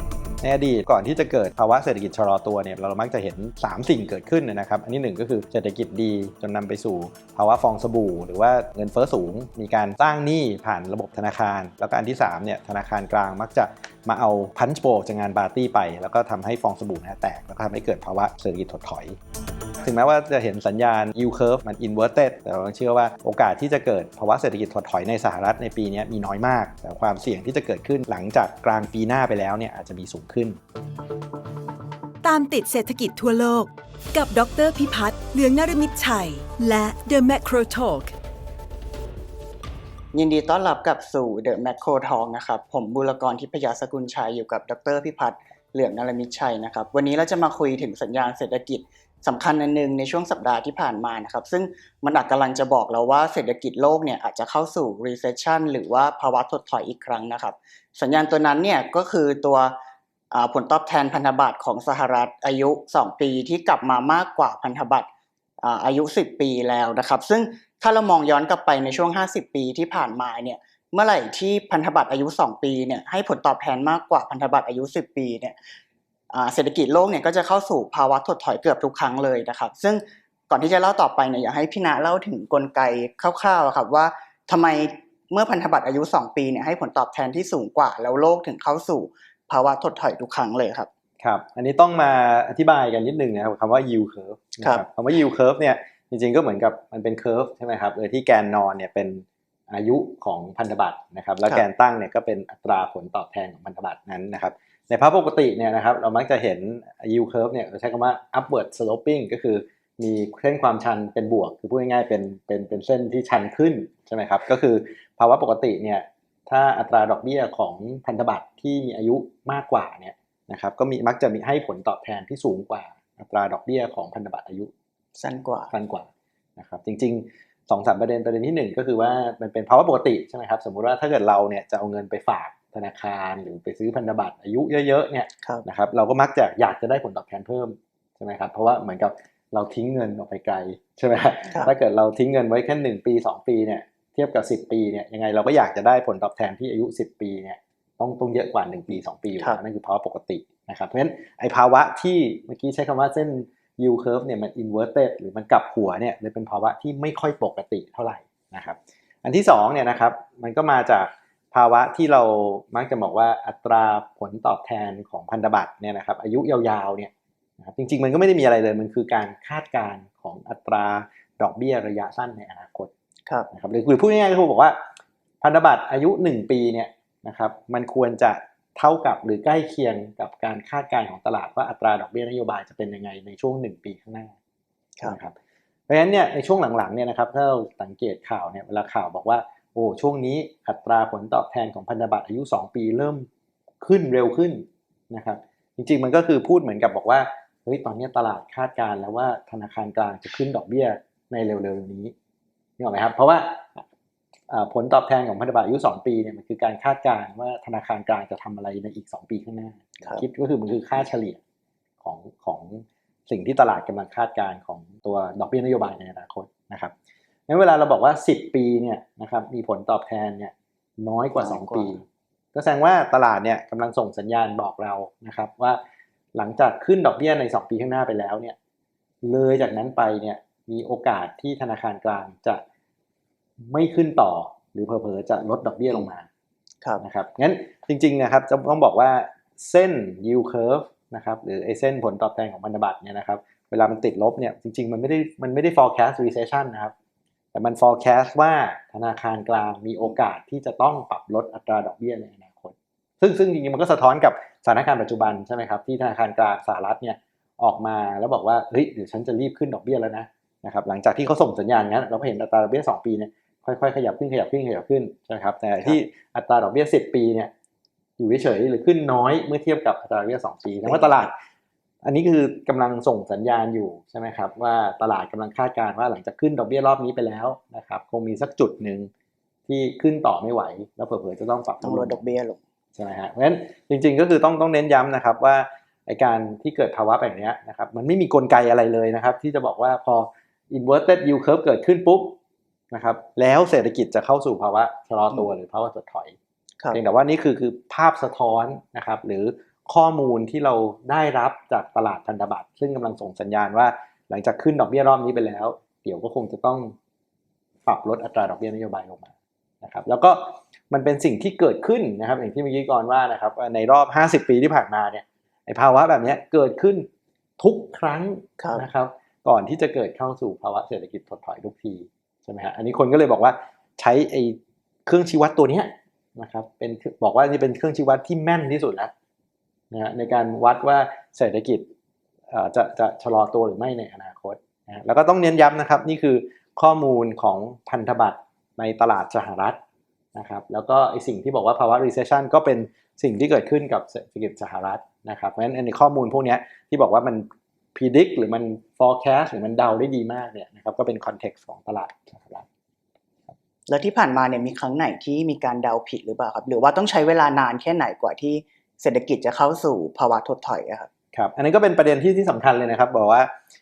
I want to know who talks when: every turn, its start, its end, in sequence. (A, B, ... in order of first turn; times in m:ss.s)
0:00.4-0:19.2 A
0:19.8-0:30.6 A
0:32.2-0:38.1 B
0:40.1-0:59.8 C
1:00.3-1:05.1 C
1:05.6-1:15.6 C
1:16.3-1:30.9 C
1:31.2-2:04.7 A
2:05.2-2:05.7 C
2:05.7-2:52.9 A
2:53.5-2:54.8 A
2:55.4-3:04.3 A
3:05.0-3:05.3 A
3:05.9-3:13.3 A
3:13.8-3:22.1 A
3:22.8-3:23.8 A
3:24.5-3:31.4 A
3:32.0-3:36.9 A
3:37.5-3:45.8 A
3:41.4-3:42.0 C
3:46.3-3:48.6 A
3:49.2-3:52.6 A
3:53.6-3:56.3 A
3:57.0-4:06.9 A
4:07.5-4:27.5 A
4:28.2-4:31.4 A
4:30.8-4:31.2 C
4:32.0-4:39.1 A
4:39.7-4:42.2 A
4:41.8-4:42.6 C
4:42.9-4:52.4 A
4:52.9-4:56.4 A
4:56.9-5:06.9 A
5:07.9-5:17.1 A
5:17.6-5:29.1 A
5:18.6-5:18.8 C
5:29.9-5:31.9 A
5:32.5-5:39.8 A
5:40.4-5:52.7 A
5:53.9-6:01.1 C
6:01.3-6:03.5 A